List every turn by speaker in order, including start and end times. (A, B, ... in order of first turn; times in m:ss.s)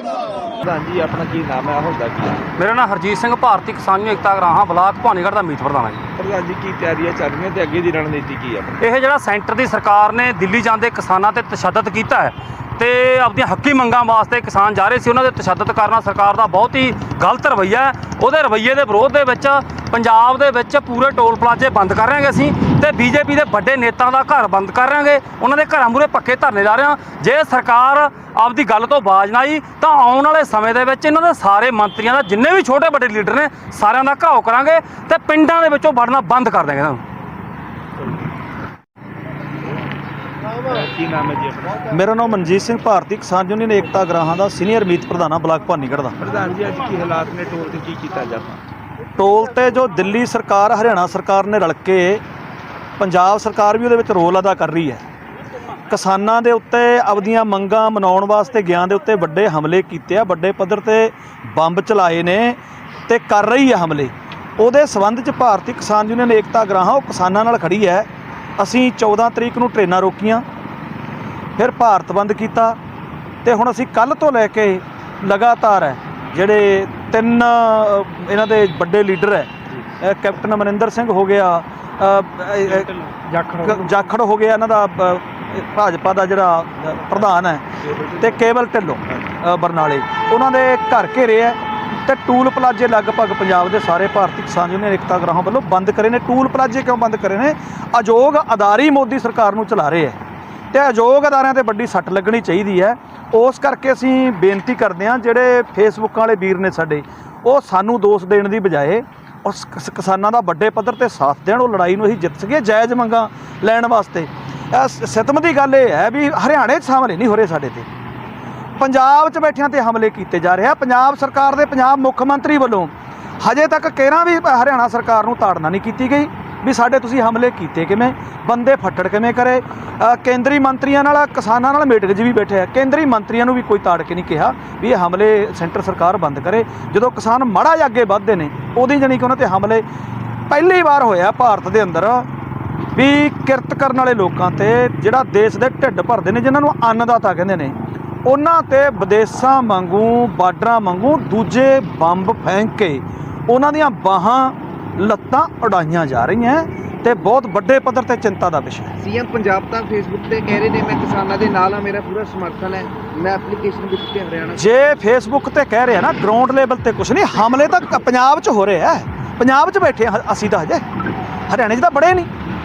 0:00.6-0:02.5 A
0:02.6-0:06.0 B
0:06.2-0:08.8 A
0:08.8-0:37.0 B
0:40.6-0:41.8 A
0:41.9-0:46.2 C
0:46.2-0:48.6 A
0:49.2-0:52.2 C
0:53.0-0:55.0 C
0:55.9-1:10.4 C
1:11.6-1:12.8 C
1:13.4-1:22.9 C
1:23.6-1:27.7 C
1:27.8-1:28.5 A
1:28.2-1:40.2 C
1:40.7-1:57.9 C
1:58.8-2:19.8 C
2:20.5-2:22.3 C
2:22.9-2:39.0 C
2:39.0-2:44.7 D
2:44.6-2:50.8 C
2:51.5-2:52.3 C